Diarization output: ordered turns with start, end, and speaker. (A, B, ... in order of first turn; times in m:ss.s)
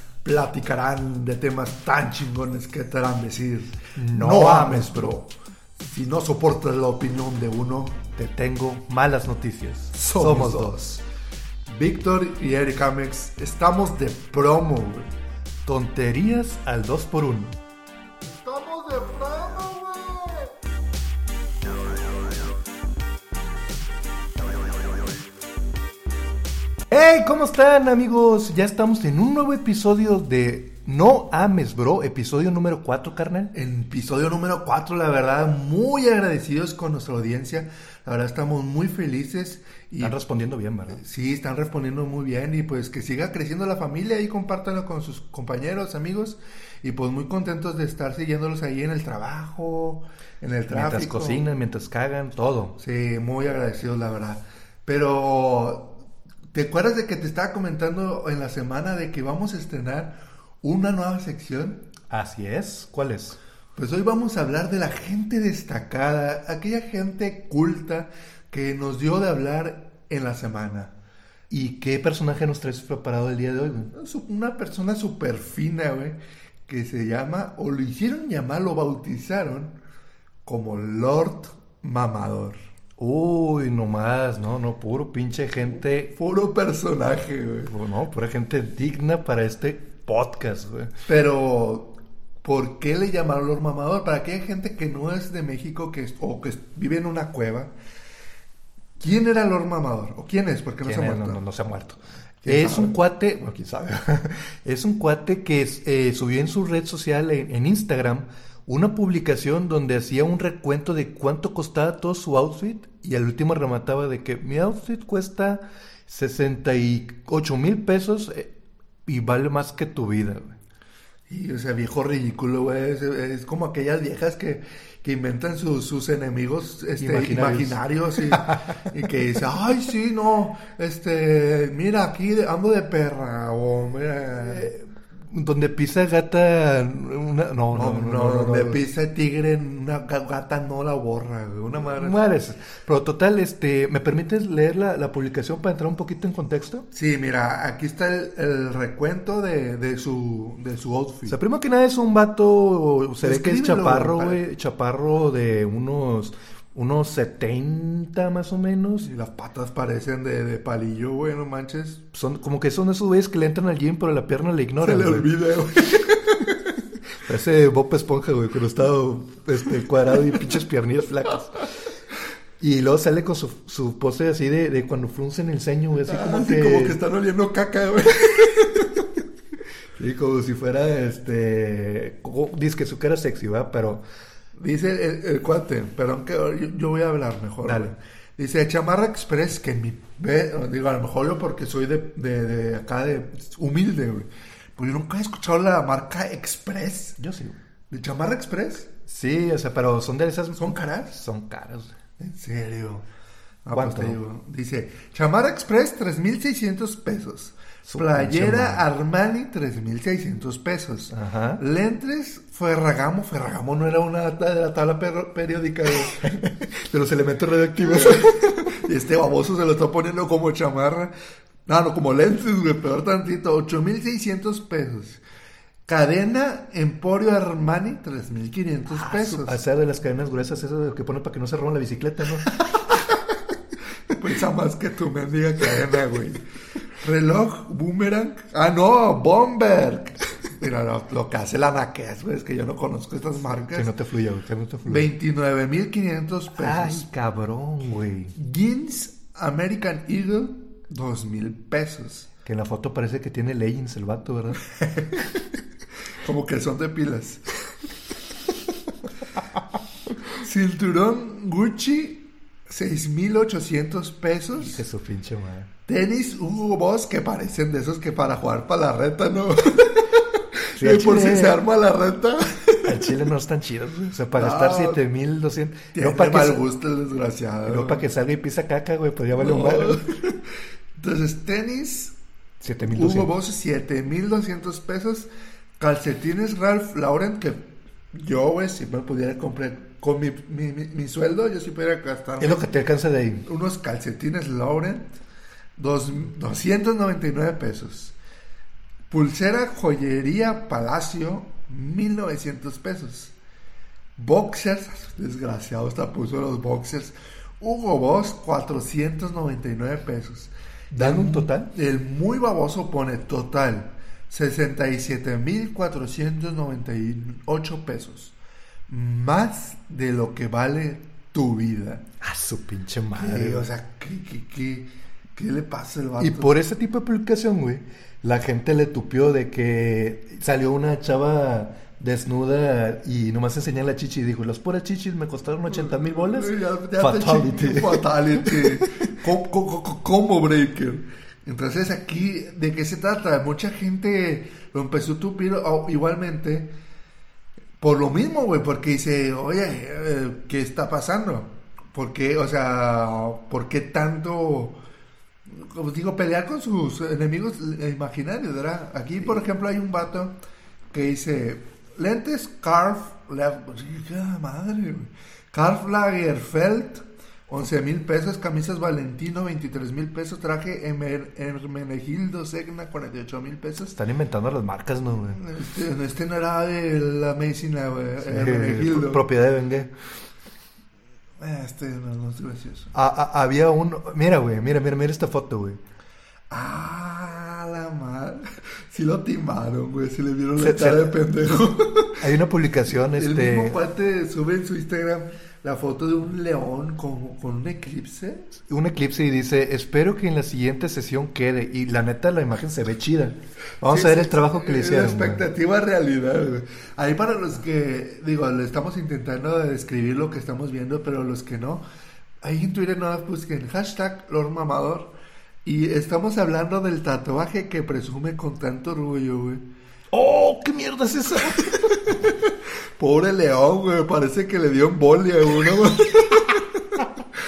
0:00.2-0:08.0 A
0:04.0-0:05.1 B
0:08.2-0:11.0 B
0:09.9-0:10.9 A
0:11.7-0:15.1 A
0:15.7-0:17.6 B
0:18.2-0:20.5 A
0:26.9-0:33.5 B
0:33.5-0:40.2 A
0:40.0-0:41.0 B
0:40.9-0:51.5 A
0:50.7-0:52.8 B
0:52.8-0:56.0 A
0:56.5-1:01.9 A
1:02.1-1:03.4 B
1:03.8-1:10.9 A
1:11.5-1:13.9 B
1:13.9-1:19.8 A
1:20.4-1:22.6 A
1:23.0-1:26.1 B
1:26.1-1:27.7 A
1:27.7-1:30.9 B
1:31.1-1:37.7 A
1:39.0-1:41.4 A
1:40.8-1:58.5 B
1:42.4-1:43.0 A
1:59.1-2:00.6 B
2:01.3-2:14.7 A
2:07.0-2:08.8 B
2:14.4-2:18.8 B
2:17.7-2:22.2 A
2:21.8-2:26.9 B
2:26.9-2:31.4 A
2:31.3-2:39.1 B
2:33.2-2:34.4 A
2:39.0-2:42.0 A
2:42.1-2:45.3 B
2:44.8-2:46.6 A
2:47.2-2:51.7 B
2:52.6-2:57.0 B
2:56.0-2:59.1 A
3:00.0-3:04.0 B
3:04.6-3:17.2 A
3:07.6-3:07.9 B
3:17.2-3:17.6 B
3:17.9-3:18.9 A
3:19.1-3:22.0 B
3:20.6-3:21.2 A
3:22.2-3:23.0 A
3:23.6-3:36.2 A
3:23.7-3:24.2 B
3:27.9-3:28.8 B
3:31.1-3:31.6 B
3:36.2-3:38.8 B
3:37.8-3:41.1 A
3:41.7-3:45.2 A
3:45.9-3:49.6 A
3:48.9-3:52.6 B
3:54.2-3:56.4 A
3:57.0-4:03.9 A
4:03.7-4:05.1 B
4:04.9-4:07.1 A
4:06.5-4:08.3 B
4:08.4-4:12.3 A
4:12.4-4:14.6 B
4:14.8-4:15.3 A
4:16.2-4:17.4 A
4:20.3-4:24.8 A
4:24.6-4:25.7 B
4:25.9-4:33.1 A
4:30.8-4:31.6 B
4:32.8-4:36.6 B
4:34.3-4:35.0 A
4:35.9-4:38.0 A
4:37.7-4:40.0 B
4:39.4-4:40.4 A
4:41.0-4:42.2 A
4:42.6-4:43.3 B
4:42.9-4:52.7 A
4:52.4-4:53.4 B
4:53.4-4:55.1 A
4:55.8-4:58.2 A
4:59.1-5:03.4 A
5:04.2-5:18.4 A
5:10.9-5:11.7 B
5:18.9-5:22.0 A
5:22.2-5:23.7 B
5:23.2-5:26.6 A
5:26.2-5:39.0 B
5:35.7-5:46.7 A
5:47.8-5:54.8 A
5:55.5-6:00.4 A
6:00.9-6:14.0 A
6:13.9-6:15.4 B
6:15.3-6:19.2 A
6:18.2-6:19.9 B
6:21.4-6:22.9 A
6:22.9-6:25.8 B
6:26.5-6:32.3 A
6:30.6-6:31.2 B
6:32.2-6:33.8 B
6:33.2-6:38.5 A
6:38.7-6:45.5 B
6:43.8-6:51.8 A
6:52.4-6:55.1 A
6:55.6-6:59.6 A
7:00.1-7:02.2 B
7:03.0-7:07.0 A